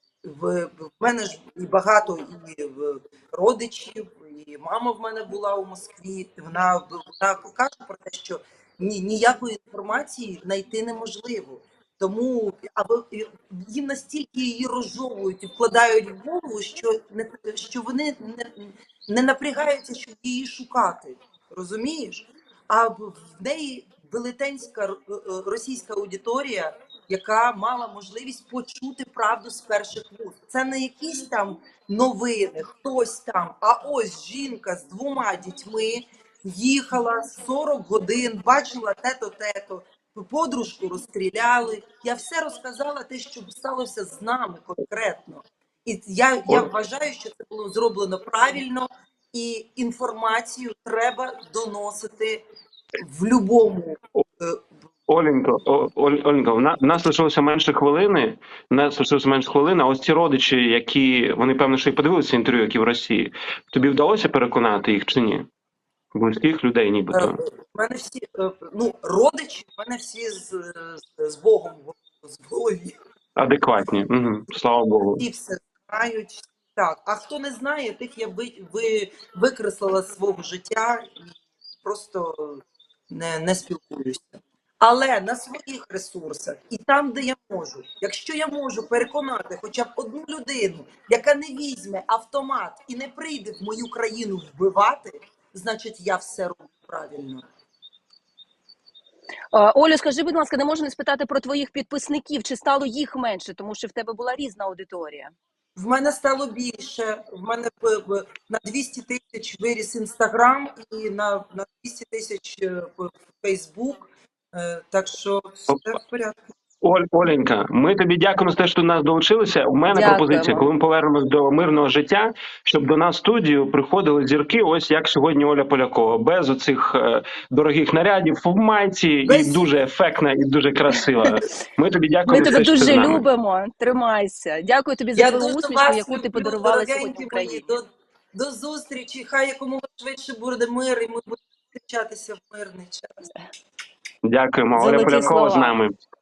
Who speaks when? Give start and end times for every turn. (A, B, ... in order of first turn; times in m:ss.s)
0:00.2-0:52.4 A
0:53.0-0:54.6 A
0:55.1-1:05.5 B
1:06.1-1:07.3 B
1:07.1-1:13.0 A
1:13.4-1:15.2 B
1:15.1-1:37.4 A
1:39.5-1:45.3 C
1:45.8-1:56.5 A
1:56.8-2:13.2 B
1:59.9-2:00.7 C
2:09.2-2:09.7 A
2:12.2-2:17.8 C
2:15.1-2:23.2 A
2:24.2-2:26.0 B
2:24.8-2:25.7 C